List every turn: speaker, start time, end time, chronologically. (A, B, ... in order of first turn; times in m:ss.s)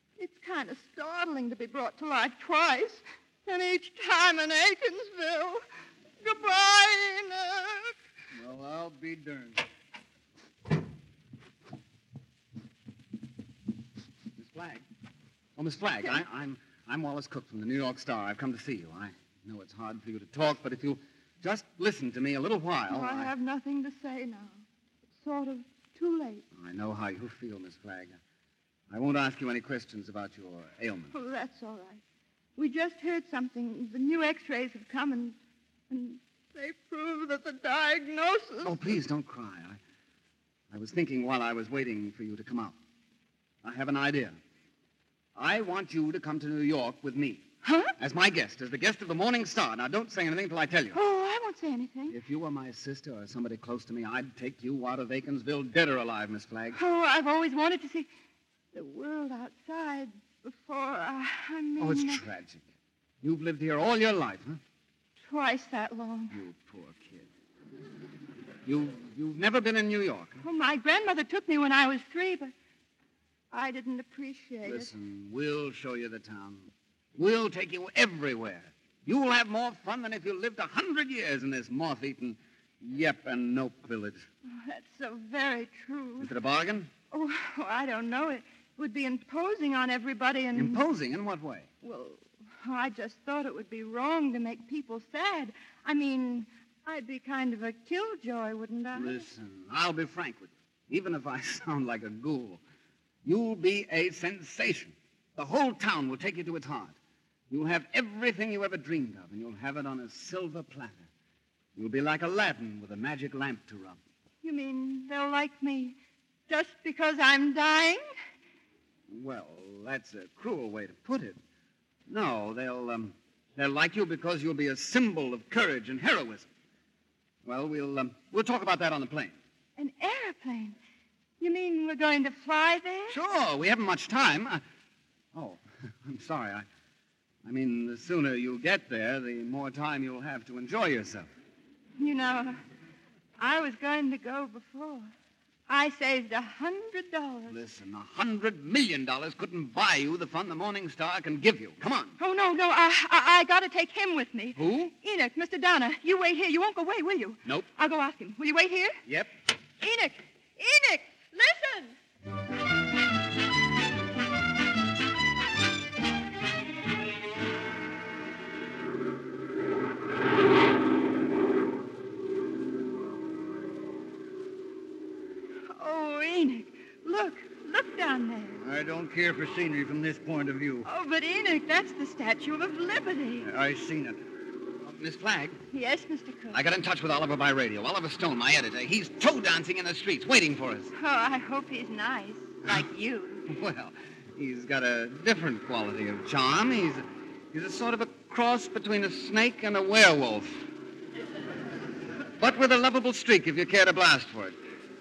0:00.2-0:05.6 A
0:06.2-0:07.9 A
0:08.3-0:09.6 B
0:14.4-0:14.8 C
0:15.6-0:23.3 C
0:22.9-0:24.6 A
0:25.2-0:26.4 A
0:26.5-0:28.2 C
0:28.9-0:31.1 C
0:31.1-0:32.0 A
0:32.6-0:35.4 A
0:35.9-0:39.0 A
0:38.6-0:39.8 C
0:40.7-0:42.8 C
0:43.6-0:44.4 C
0:45.4-0:47.4 C
0:47.6-0:47.9 A
0:48.0-0:51.0 C
0:50.9-0:52.2 A
0:52.1-0:56.8 C
0:56.7-0:58.1 A
0:58.7-1:02.2 A
1:01.8-1:02.6 C
1:03.2-1:04.6 C
1:05.2-1:06.4 A
1:06.3-1:07.3 C
1:08.7-1:10.4 C
1:10.4-1:12.5 A
1:13.5-1:14.9 A
1:14.6-1:24.2 C
1:24.5-1:26.3 A
1:26.2-1:26.9 C
1:27.1-1:30.8 A
1:30.6-1:31.7 C
1:31.8-1:39.3 A
1:38.9-1:42.6 C
1:43.2-1:47.0 C
1:47.5-1:51.1 C
1:51.8-1:54.0 C
1:54.4-1:56.0 A
1:56.5-1:58.0 A
1:59.1-2:01.4 C
2:02.1-2:06.5 C
2:07.4-2:09.4 C
2:09.8-2:10.8 A
2:11.4-2:13.2 A
2:13.1-2:14.6 C
2:15.3-2:16.6 C
2:17.4-2:21.3 C
2:22.0-2:22.6 A
2:23.4-2:25.1 A
2:25.7-2:27.6 A
2:27.5-2:32.1 C
2:32.2-2:39.0 A
2:34.6-2:34.9 C
2:39.8-2:42.0 A
2:55.7-2:58.6 A
2:58.6-3:00.9 B
3:00.8-3:03.5 A
3:03.4-3:04.2 B
3:04.9-3:05.6 C
3:05.7-3:06.6 A
3:06.5-3:10.9 C
3:10.9-3:13.4 A
3:13.5-3:20.6 C
3:22.4-3:24.6 C